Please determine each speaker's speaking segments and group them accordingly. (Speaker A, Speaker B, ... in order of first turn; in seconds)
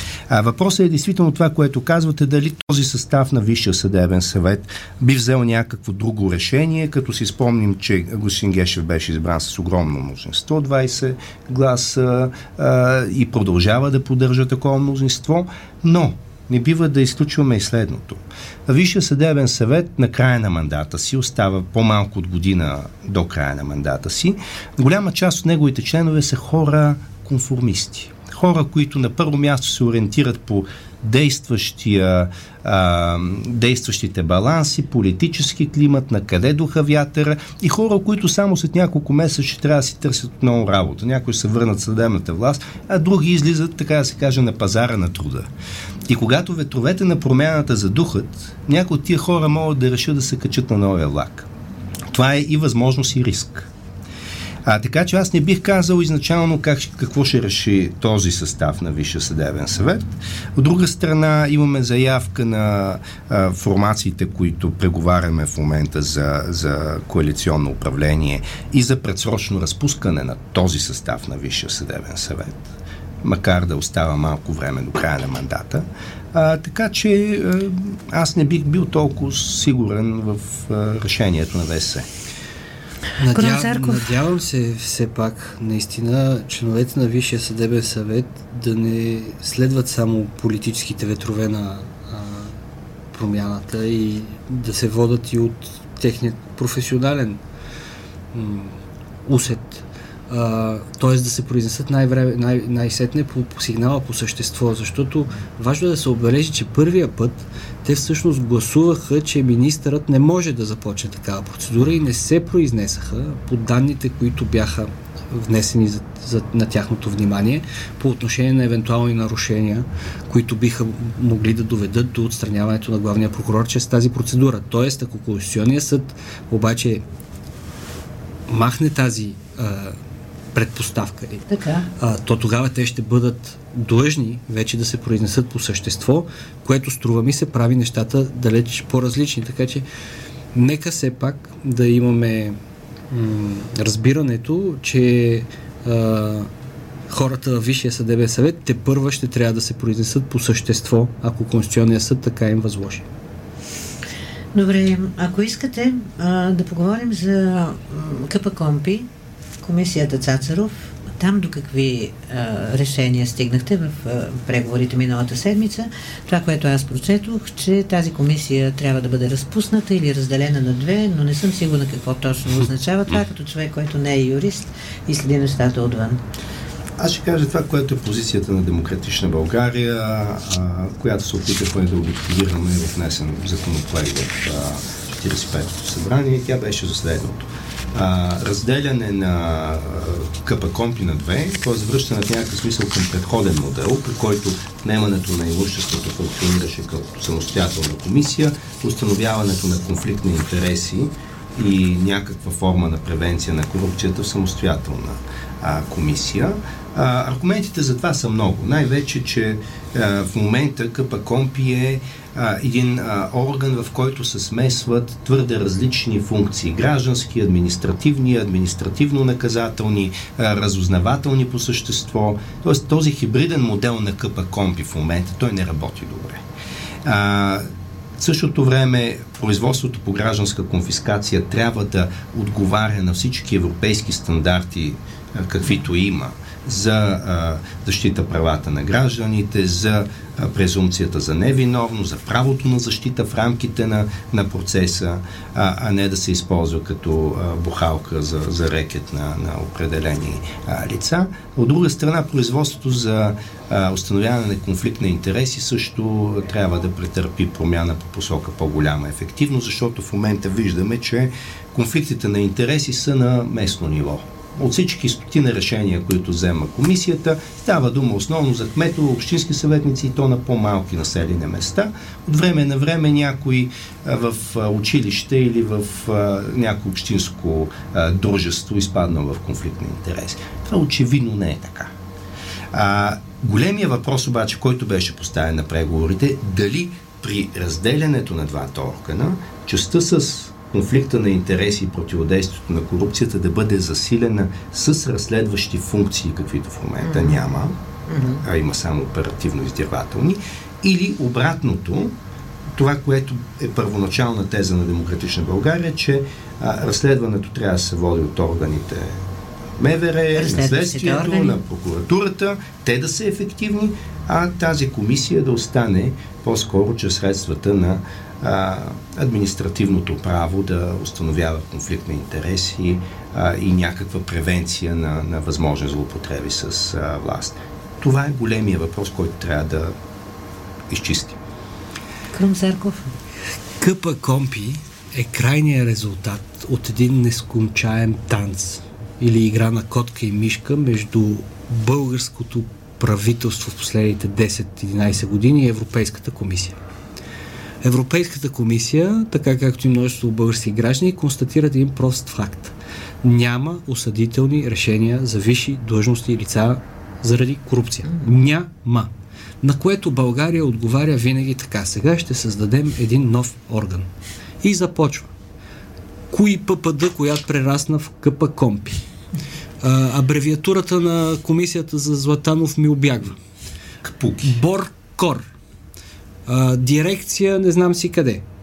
Speaker A: 0.3-45.5, 46.1-51.5, 52.1-53.7, 54.6-72.7, 73.2-82.1, 177.0-226.4, 227.0-227.7, 228.2-281.9, 282.7-297.8, 298.4-302.1, 302.7-309.2, 309.8-329.9, 330.9-331.4, 374.0-374.6
Speaker B: 83.2-92.5, 93.1-97.4, 98.3-127.0, 128.5-130.0, 130.5-131.4, 132.0-139.8, 140.5-142.6, 143.1-146.5, 147.1-153.1, 333.8-346.8, 347.8-359.1, 359.6-364.1, 364.6-365.3, 366.3-369.0, 369.8-373.4, 374.4-375.4, 376.5-378.4
Speaker C: 83.3-84.1, 131.5-131.9, 154.5-159.1, 159.6-176.2, 297.0-297.4, 298.1-298.4, 310.3-311.6, 332.3-333.1